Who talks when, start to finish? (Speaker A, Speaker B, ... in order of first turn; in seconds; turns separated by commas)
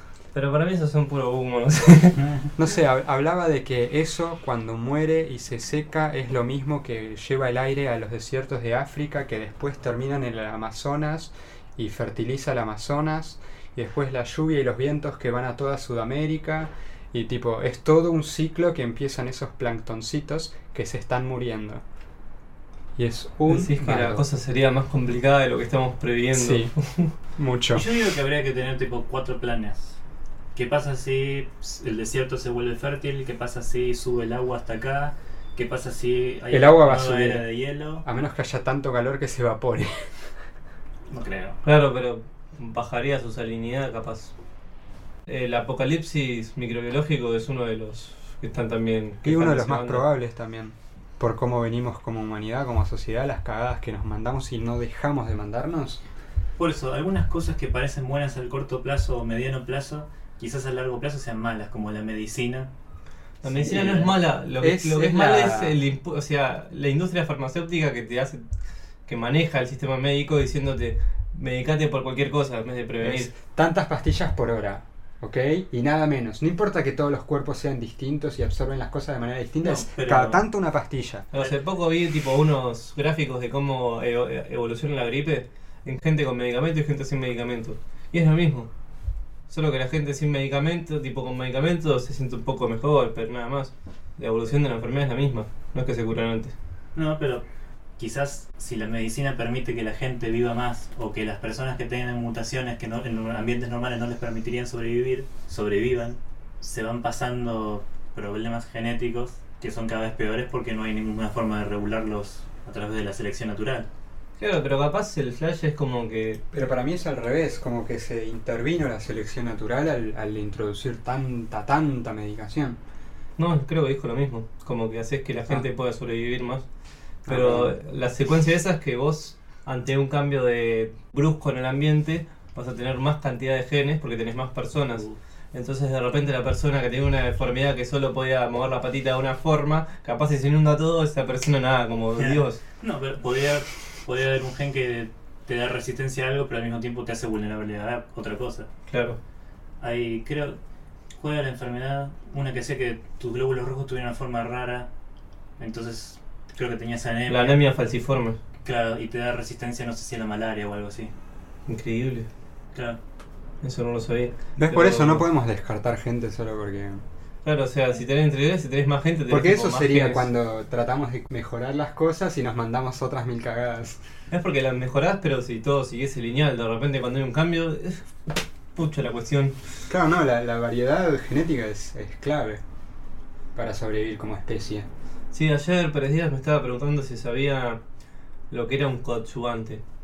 Speaker A: 0.3-2.2, Speaker B: 2.2-2.5, Speaker C: 2.6-21.8, Speaker C: 23.0-24.2, Speaker A: 23.5-27.1, Speaker C: 26.3-26.7, Speaker C: 27.4-27.9, Speaker B: 27.7-30.0, Speaker B: 30.6-38.0, Speaker C: 36.5-37.5, Speaker C: 38.0-40.3, Speaker B: 41.1-41.6, Speaker A: 41.6-44.3, Speaker A: 45.3-50.1, Speaker C: 49.2-56.0, Speaker B: 56.6-62.7, Speaker A: 63.4-68.4, Speaker B: 63.5-64.1, Speaker C: 64.6-65.8, Speaker A: 69.1-73.3, Speaker C: 73.0-81.3, Speaker B: 79.6-80.4, Speaker A: 81.3-88.7, Speaker A: 89.5-96.5, Speaker B: 97.0-97.5, Speaker B: 98.0-113.9, Speaker A: 114.4-116.4, Speaker C: 116.5-122.8, Speaker A: 123.4-126.7, Speaker C: 127.3-127.7, Speaker A: 127.3-142.6, Speaker B: 142.2-148.7, Speaker A: 148.9-149.2, Speaker B: 149.8-150.6, Speaker B: 151.2-154.9, Speaker B: 155.6-157.6, Speaker A: 157.3-158.4, Speaker B: 158.6-161.1, Speaker A: 161.7-162.3, Speaker B: 162.7-163.0, Speaker A: 163.6-165.3, Speaker C: 164.6-167.0, Speaker A: 167.4-170.3, Speaker C: 169.3-174.0, Speaker A: 174.3-178.1, Speaker A: 178.8-179.6, Speaker C: 179.9-182.6, Speaker C: 183.6-184.9, Speaker A: 185.3-187.8, Speaker A: 188.5-189.8